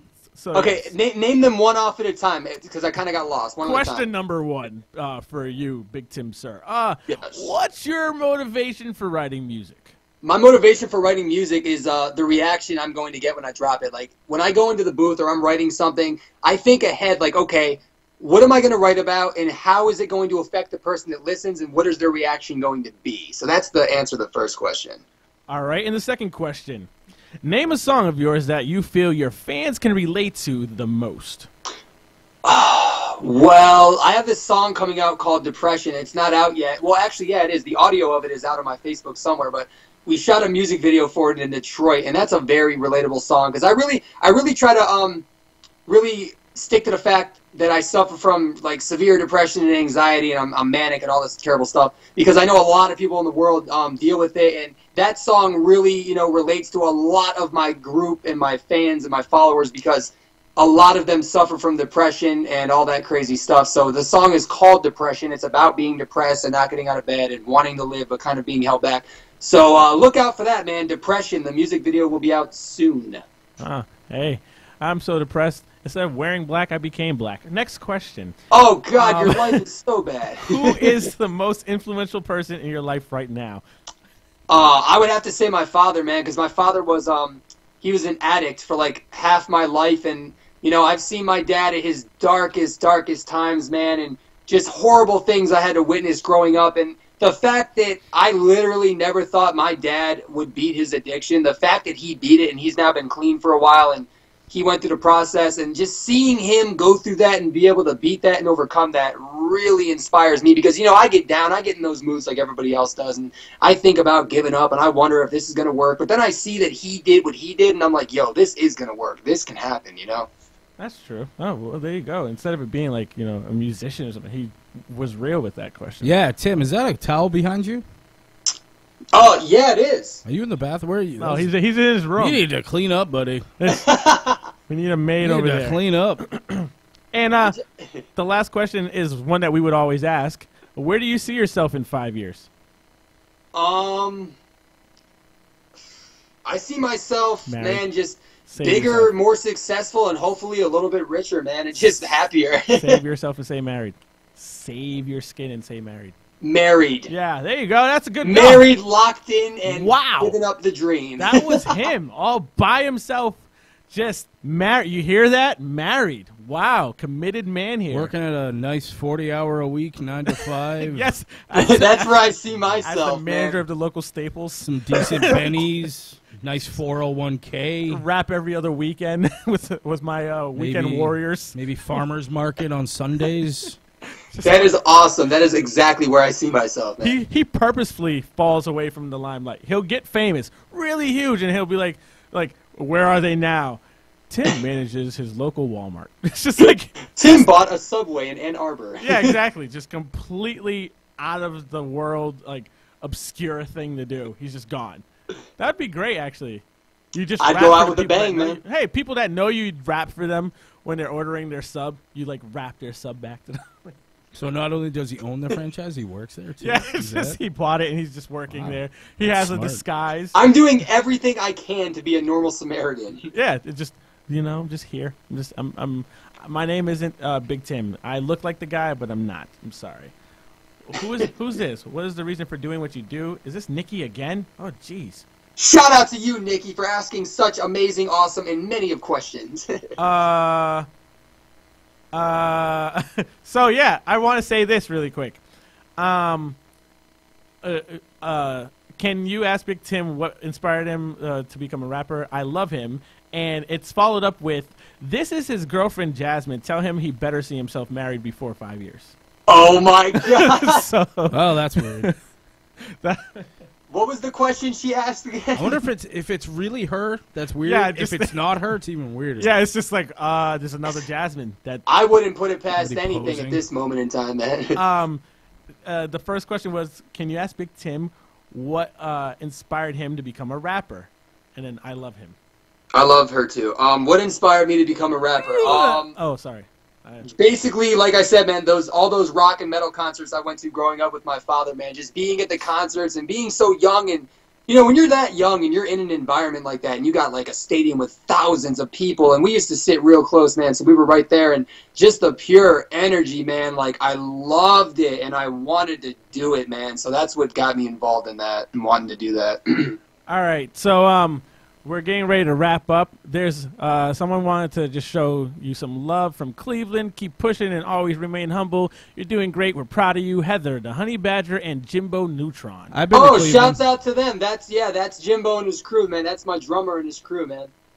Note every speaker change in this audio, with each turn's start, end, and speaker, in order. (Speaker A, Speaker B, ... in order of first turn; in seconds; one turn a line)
Speaker A: 0.3-0.9
Speaker B: 0.5-4.1
Speaker A: 3.6-9.9
Speaker B: 7.1-7.5
Speaker B: 10.2-25.0
Speaker A: 25.5-26.9
Speaker A: 27.4-31.5
Speaker B: 32.4-45.2
Speaker B: 45.9-73.2
Speaker A: 73.6-78.3
Speaker B: 78.5-80.9
Speaker A: 79.0-79.6
Speaker A: 80.4-83.6
Speaker B: 84.5-120.3
Speaker A: 120.8-126.1
Speaker C: 126.0-127.8
Speaker B: 129.1-130.2
Speaker C: 130.2-131.5
Speaker A: 131.2-132.4
Speaker C: 132.2-133.4
Speaker A: 133.6-133.8
Speaker B: 133.7-134.5
Speaker A: 134.7-137.6
Speaker C: 135.2-136.2
Speaker B: 137.4-138.0
Speaker A: 138.2-142.5
Speaker B: 143.5-144.3
Speaker B: 146.4-153.0
Speaker A: 147.5-147.8
Speaker A: 148.5-149.1
Speaker A: 152.7-156.1
Speaker B: 156.4-157.1
Speaker A: 157.1-158.7
Speaker B: 158.2-161.7
Speaker A: 159.6-160.4
Speaker A: 161.2-168.1
Speaker C: 167.9-171.1
Speaker A: 170.8-172.1
Speaker B: 171.5-173.6
Speaker A: 172.8-175.5
Speaker C: 174.6-178.0
Speaker A: 177.9-181.6
Speaker C: 180.5-183.8
Speaker A: 184.3-184.8
Speaker B: 184.4-187.1
Speaker A: 187.0-197.4
Speaker B: 197.2-199.3
Speaker A: 199.0-205.0
Speaker A: 205.6-214.0
Speaker B: 207.4-208.6
Speaker C: 214.3-217.4
Speaker A: 216.6-220.3
Speaker C: 218.5-219.8
Speaker B: 220.3-223.3
Speaker A: 223.3-230.1
Speaker A: 230.8-235.2
Speaker B: 235.6-239.8
Speaker A: 240.0-240.9
Speaker A: 242.1-245.4
Speaker A: 246.0-246.6
Speaker A: 247.6-259.1
Speaker B: 259.5-260.8
Speaker A: 260.1-262.1
Speaker C: 261.3-262.1
Speaker A: 262.8-263.5
Speaker B: 263.9-265.8
Speaker C: 265.6-269.5
Speaker A: 267.6-268.4
Speaker A: 269.4-271.9
Speaker B: 271.9-274.8
Speaker C: 272.7-273.6
Speaker A: 274.7-275.2
Speaker A: 275.8-282.4
Speaker B: 282.9-286.1
Speaker A: 285.4-287.3
Speaker B: 287.2-310.0
Speaker A: 310.3-322.9
Speaker C: 322.9-323.8
Speaker B: 323.1-327.7